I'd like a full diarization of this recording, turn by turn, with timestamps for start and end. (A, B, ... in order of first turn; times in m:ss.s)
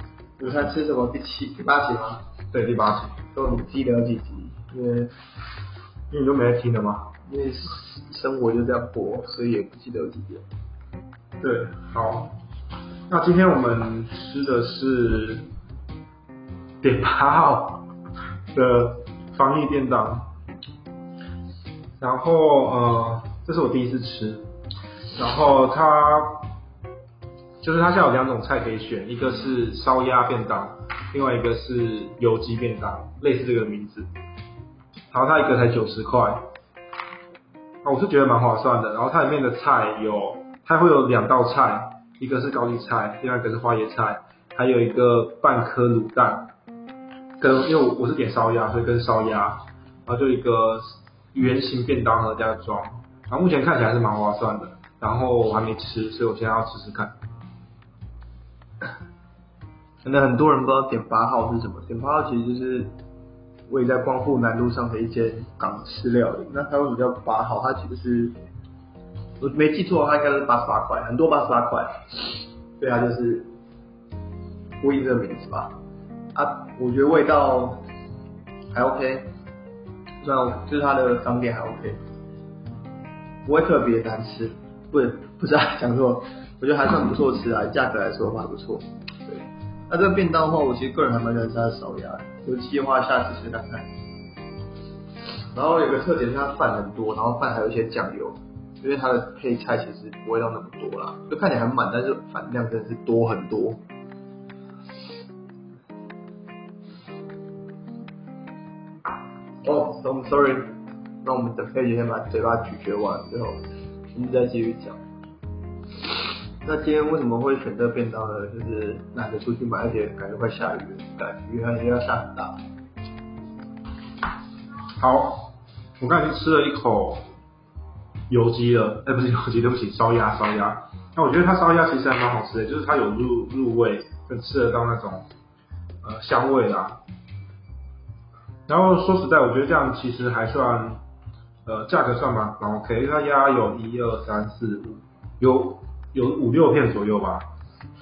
0:00.4-0:02.2 A
0:02.5-0:03.2 B
0:03.3-0:05.1 A
0:06.1-0:07.1 B
0:07.2-0:10.4 A
0:11.4-0:12.4 B
0:13.1-0:15.4 B
0:16.8-0:17.8 B
0:18.5-0:20.3 B
0:22.0-0:24.5 B
0:25.1-0:26.4 B
0:27.6-0:34.1 B
0:35.1-0:36.5 B
0:37.8-0:46.5 B
0:47.4-0:57.1 B
1:00.0-1:02.9 A
1:03.7-1:08.4 A
1:09.4-1:12.1 A
1:12.8-1:13.5 A
1:14.8-1:15.7 A
1:16.3-1:17.8 A
1:18.7-1:19.3 A
1:20.2-1:22.0 A
1:23.4-1:33.9 A
1:35.5-1:43.8 A
1:49.6-1:53.6 A
1:54.1-1:55.0 A
1:56.6-2:02.6 A
2:05.0-2:07.2 B
2:08.3-2:15.2 B
2:16.0-2:17.0 B
2:18.7-2:21.0 B
2:21.6-2:27.5 B